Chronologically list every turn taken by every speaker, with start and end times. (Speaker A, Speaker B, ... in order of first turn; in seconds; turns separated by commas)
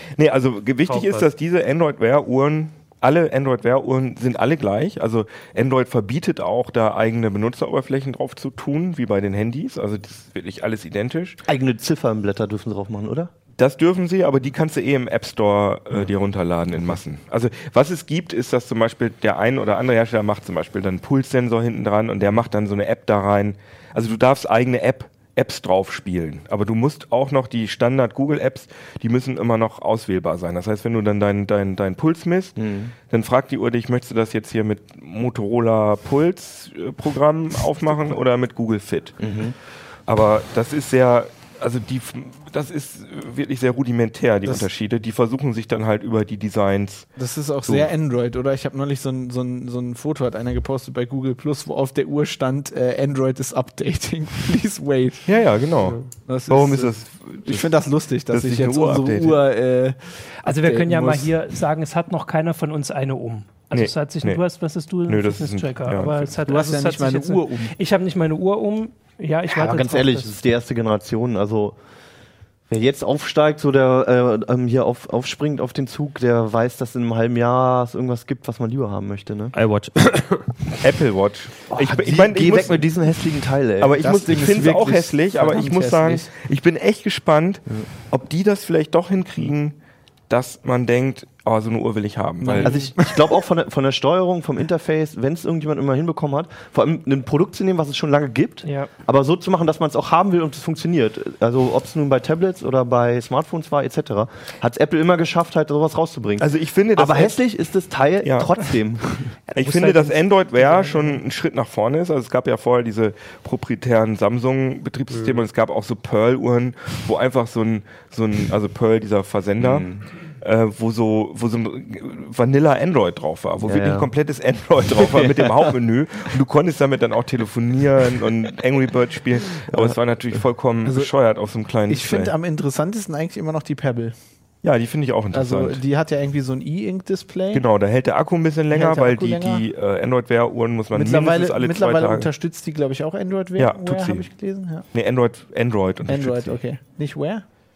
Speaker A: 0.2-11.4, Speaker B: 0.8-1.3, Speaker C: 11.5-13.3, Speaker A: 13.6-32.6, Speaker C: 32.6-32.9, Speaker A: 33.1-39.2, Speaker C: 39.2-39.5, Speaker A: 40.1-47.1, Speaker D: 47.1-55.2, Speaker A: 55.2-59.4, Speaker B: 55.8-56.1, Speaker D: 56.1-61.4, Speaker E: 60.4-70.3, Speaker A: 63.7-64.4, Speaker A: 65.0-66.3, Speaker D: 66.4-67.7, Speaker C: 69.5-71.8, Speaker C: 72.7-79.5, Speaker B: 79.5-80.5, Speaker A: 80.8-83.1, Speaker C: 81.7-84.3, Speaker A: 83.8-89.8, Speaker D: 84.0-86.3, Speaker A: 90.3-92.8, Speaker D: 92.4-93.2, Speaker C: 92.6-109.4, Speaker E: 98.6-98.9, Speaker A: 106.4-107.4, Speaker A: 108.2-108.6, Speaker A: 109.5-119.9, Speaker E: 109.6-111.2, Speaker B: 115.1-115.4, Speaker C: 119.6-120.0, Speaker A: 120.4-132.3, Speaker C: 123.6-124.1, Speaker C: 125.0-125.7, Speaker C: 129.7-130.0, Speaker D: 130.8-131.1, Speaker D: 131.9-134.1, Speaker A: 134.6-135.8, Speaker D: 135.3-137.7, Speaker A: 137.5-142.3, Speaker D: 138.7-139.6, Speaker D: 140.9-144.9, Speaker A: 143.6-144.3, Speaker A: 144.9-146.6, Speaker D: 146.1-147.4